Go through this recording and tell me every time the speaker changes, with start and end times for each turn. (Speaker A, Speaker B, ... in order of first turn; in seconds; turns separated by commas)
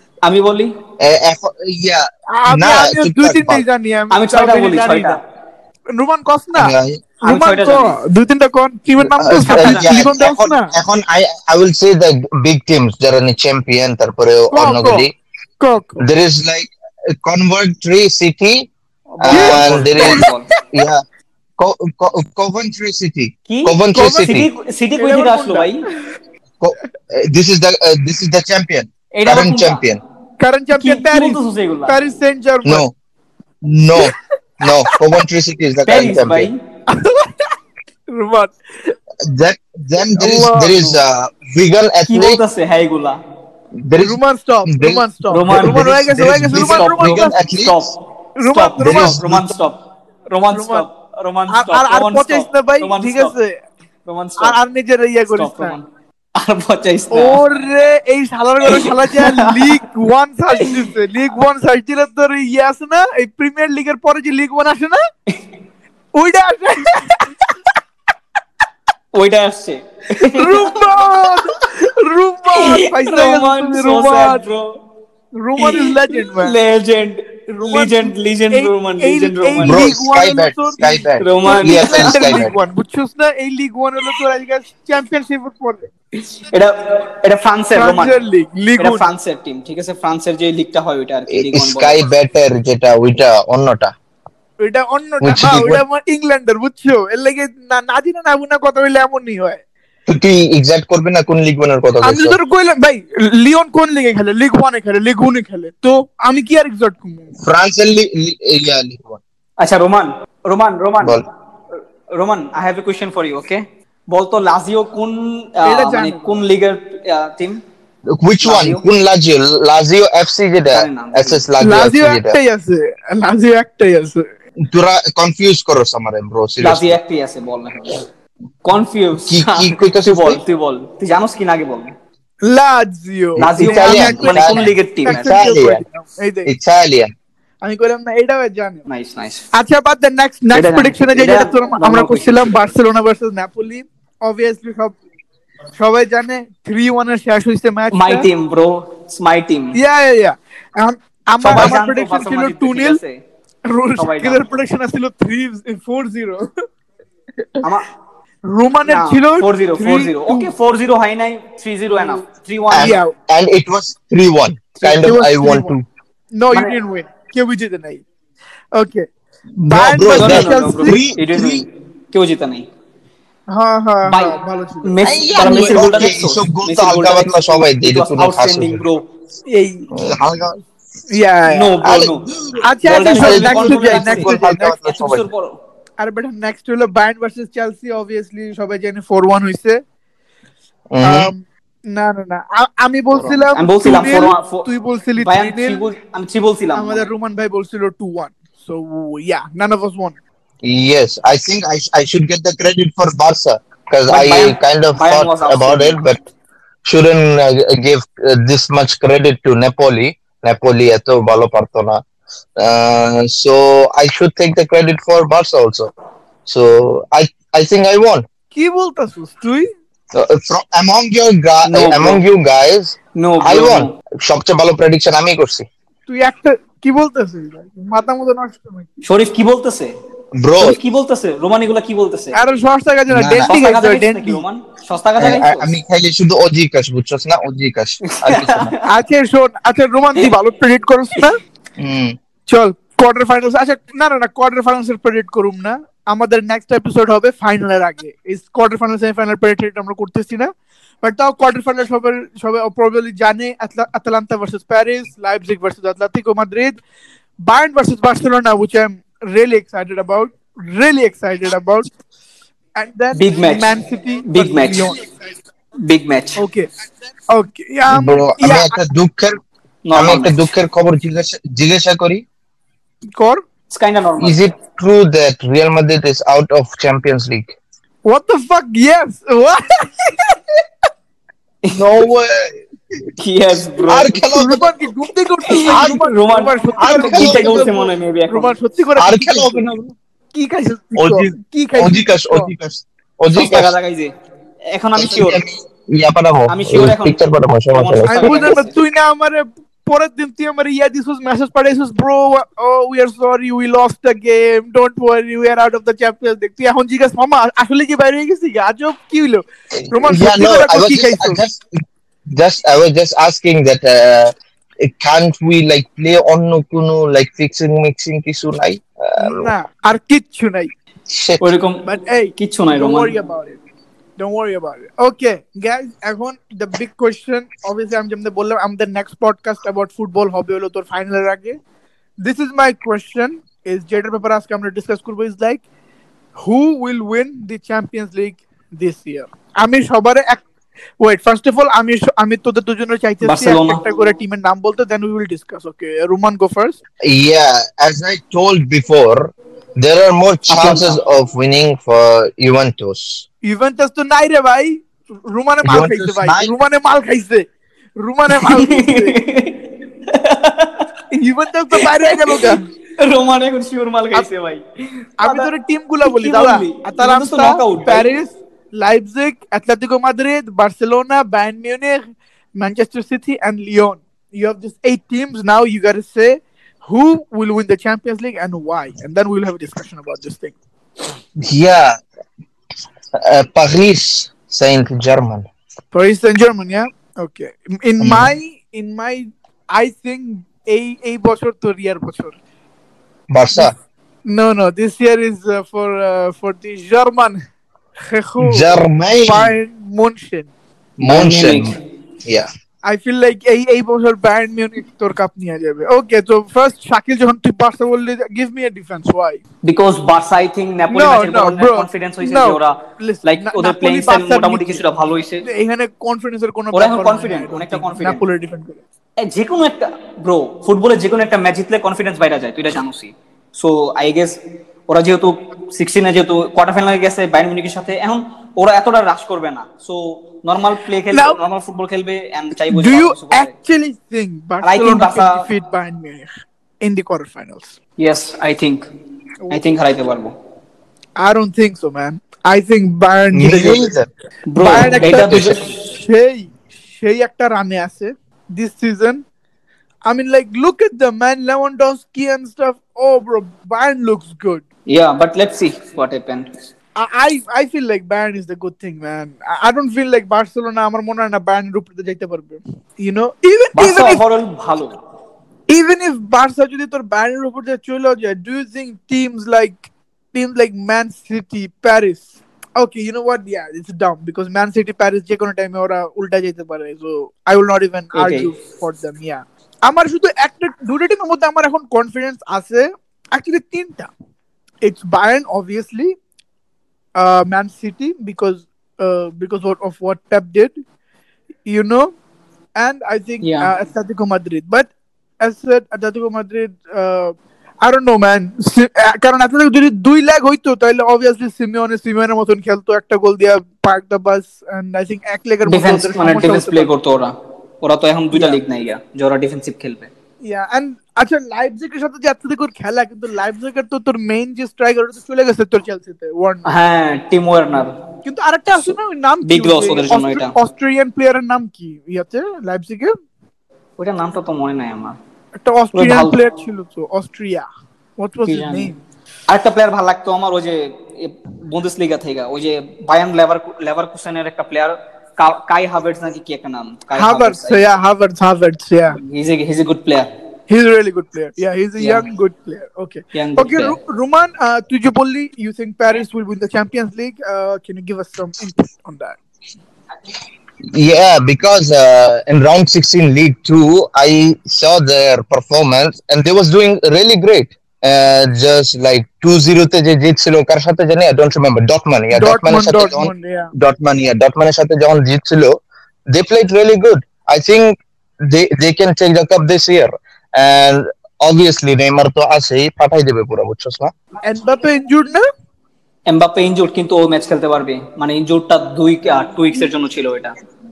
Speaker A: 0.2-0.7, Speaker B: 1.0-3.6, Speaker C: 2.3-5.2, Speaker A: 4.1-5.2, Speaker C: 5.9-10.7, Speaker B: 6.6-7.0, Speaker A: 7.2-8.0, Speaker B: 9.0-15.1, Speaker A: 9.5-9.9, Speaker C: 14.5-15.1, Speaker C: 15.6-16.0, Speaker B: 16.0-18.7, Speaker A: 19.1-20.5, Speaker B: 19.2-21.0, Speaker C: 19.3-20.3, Speaker B: 21.6-24.5, Speaker A: 23.5-25.8, Speaker C: 23.9-24.4, Speaker C: 25.0-26.0, Speaker B: 26.6-30.0, Speaker A: 29.1-29.8, Speaker C: 30.4-32.9, Speaker A: 30.8-32.0, Speaker B: 32.6-32.9, Speaker B: 33.6-36.5, Speaker A: 35.9-36.6, Speaker C: 36.9-37.5, Speaker C: 38.1-39.0, Speaker B: 39.2-42.4, Speaker C: 40.1-41.0, Speaker A: 42.1-43.2, Speaker B: 43.8-47.8, Speaker C: 44.0-47.3, Speaker A: 45.3-49.8, Speaker C: 48.4-49.2, Speaker B: 48.8-49.5, Speaker A: 50.3-53.3, Speaker C: 50.5-50.9, Speaker C: 51.5-53.6, Speaker A: 54.1-54.6, Speaker C: 54.4-55.8, Speaker A: 55.3-55.9, Speaker A: 56.4-57.5, Speaker C: 57.1-65.0, Speaker A: 58.7-59.8, Speaker C: 66.2-67.3, Speaker A: 69.1-71.6, Speaker C: 70.3-74.4, Speaker A: 72.5-74.7, Speaker C: 75.4-76.5, Speaker A: 75.6-79.9, Speaker C: 77.5-85.9, Speaker B: 79.6-82.5, Speaker A: 81.2-82.4, Speaker A: 86.3-88.2, Speaker C: 87.8-89.0, Speaker A: 88.8-92.0, Speaker B: 91.3-93.9, Speaker C: 94.6-99.6, Speaker B: 95.2-95.8, Speaker B: 100.1-102.4, Speaker C: 102.0-107.3, Speaker B: 107.4-109.2, Speaker A: 109.6-111.2, Speaker A: 112.1-117.6, Speaker C: 115.6-116.4, Speaker B: 118.1-122.4, Speaker A: 118.4-118.8, Speaker A: 120.7-121.4, Speaker C: 121.6-124.3, Speaker B: 124.6-127.0, Speaker A: 126.6-128.1, Speaker A: 128.6-131.9, Speaker B: 129.3-130.4, Speaker C: 132.4-136.5, Speaker B: 133.4-135.8, Speaker A: 133.4-135.3, Speaker B: 136.5-137.1, Speaker C: 137.6-138.8, Speaker A: 138.9-139.4, Speaker C: 139.5-144.9, Speaker A: 140.5-142.7, Speaker C: 145.8-148.3, Speaker A: 147.9-149.8, Speaker C: 149.7-153.0, Speaker A: 151.4-153.2, Speaker C: 153.7-156.5, Speaker A: 154.0-154.5, Speaker C: 158.5-160.5, Speaker A: 158.9-163.0, Speaker C: 161.9-162.2, Speaker B: 162.7-165.8, Speaker C: 162.8-163.1, Speaker C: 164.8-165.8, Speaker C: 166.3-168.0, Speaker C: 168.7-169.1, Speaker B: 169.6-171.6, Speaker C: 169.7-171.0, Speaker A: 170.1-172.7, Speaker C: 173.5-176.1, Speaker A: 174.1-179.0, Speaker B: 175.1-178.8, Speaker C: 179.5-179.9, Speaker B: 179.9-180.6, Speaker C: 181.1-181.8, Speaker A: 181.5-182.3, Speaker B: 181.8-185.2, Speaker C: 182.6-184.8, Speaker A: 182.8-184.3, Speaker A: 184.8-185.6, Speaker C: 186.0-189.8, Speaker B: 190.9-191.3, Speaker C: 191.0-195.8, Speaker A: 193.1-197.1, Speaker C: 196.8-200.2, Speaker B: 200.6-206.2, Speaker A: 204.1-206.0, Speaker B: 206.8-212.0, Speaker B: 212.6-215.9, Speaker B: 216.5-218.2, Speaker C: 218.5-219.7, Speaker B: 220.1-225.7, Speaker A: 221.7-222.2, Speaker A: 223.2-223.9, Speaker C: 226.1-228.9, Speaker A: 229.0-229.9, Speaker B: 230.4-230.8, Speaker A: 230.6-232.4, Speaker C: 232.3-234.4, Speaker B: 233.1-233.5, Speaker A: 233.5-235.7, Speaker B: 235.2-238.7, Speaker A: 238.1-238.8, Speaker C: 238.9-241.4, Speaker B: 241.8-242.2, Speaker C: 242.5-250.5, Speaker C: 251.0-256.8, Speaker C: 257.4-261.9, Speaker C: 262.8-265.1, Speaker A: 263.1-263.8, Speaker A: 264.3-265.0, Speaker A: 265.8-266.4, Speaker C: 266.4-266.7, Speaker C: 267.3-268.8, Speaker B: 267.9-269.4, Speaker A: 269.9-270.4, Speaker B: 269.9-272.2, Speaker C: 273.2-273.4, Speaker A: 273.7-274.4, Speaker B: 274.2-277.6, Speaker C: 278.1-280.4, Speaker B: 281.7-283.1, Speaker A: 283.2-284.3, Speaker B: 283.9-284.7, Speaker C: 284.3-289.8, Speaker A: 285.5-288.5, Speaker B: 285.7-286.0, Speaker B: 286.8-287.7, Speaker B: 289.0-289.9, Speaker C: 290.3-292.5, Speaker B: 291.0-293.7, Speaker A: 293.3-294.1, Speaker A: 294.7-295.4, Speaker B: 295.0-298.5, Speaker A: 296.5-297.2, Speaker A: 297.7-298.8, Speaker C: 298.1-311.4, Speaker B: 309.9-319.5, Speaker C: 319.2-320.7, Speaker B: 321.1-321.5, Speaker A: 321.4-321.8, Speaker C: 321.8-323.6, Speaker A: 322.4-323.1, Speaker C: 324.2-331.6, Speaker C: 332.2-335.6, Speaker C: 336.4-340.4, Speaker C: 341.0-346.8, Speaker A: 343.2-343.8, Speaker B: 347.0-353.2, Speaker A: 350.5-351.0, Speaker C: 353.4-357.5, Speaker B: 355.6-356.5, Speaker C: 358.0-359.2, Speaker A: 358.3-360.9, Speaker C: 361.1-362.7, Speaker A: 361.8-364.6, Speaker A: 365.2-365.5, Speaker C: 365.2-380.6, Speaker A: 366.0-368.1, Speaker B: 381.4-382.0, Speaker B: 383.1-385.5, Speaker C: 385.9-392.4, Speaker B: 388.0-388.3, Speaker B: 393.3-393.7, Speaker C: 394.3-397.4, Speaker C: 398.1-400.5, Speaker B: 398.4-399.6, Speaker B: 401.0-402.5, Speaker A: 401.0-401.8, Speaker C: 402.9-409.4, Speaker A: 409.6-415.5, Speaker C: 410.9-414.8, Speaker C: 415.4-418.8, Speaker A: 416.7-418.2, Speaker A: 419.2-433.5, Speaker C: 431.1-431.4, Speaker C: 432.7-437.8, Speaker A: 434.6-435.5, Speaker A: 438.0-438.9, Speaker A: 439.5-440.3, Speaker C: 441.2-443.9, Speaker B: 443.3-444.1, Speaker A: 444.5-445.7, Speaker C: 444.6-449.2, Speaker B: 445.3-445.6, Speaker C: 450.1-454.6, Speaker A: 454.9-456.5, Speaker C: 457.0-464.2, Speaker A: 463.8-465.0, Speaker C: 465.7-484.1, Speaker A: 478.1-478.5, Speaker C: 484.8-486.1, Speaker C: 487.2-490.8, Speaker C: 491.7-492.1, Speaker C: 492.8-506.9, Speaker A: 493.4-493.7, Speaker A: 505.7-510.1, Speaker C: 508.3-508.6, Speaker C: 510.4-516.7, Speaker A: 516.7-518.0, Speaker C: 518.2-523.1, Speaker A: 518.9-520.5, Speaker A: 524.0-525.2, Speaker C: 525.6-527.7, Speaker A: 525.9-526.4, Speaker C: 528.2-529.0, Speaker A: 528.5-528.9, Speaker A: 529.5-537.9, Speaker C: 537.2-539.2, Speaker A: 539.1-540.3, Speaker C: 540.7-549.4, Speaker A: 542.0-542.3, Speaker A: 543.3-544.0, Speaker B: 550.9-565.8, Speaker C: 562.3-563.7, Speaker B: 566.3-574.1, Speaker C: 574.5-575.5, Speaker A: 576.3-580.5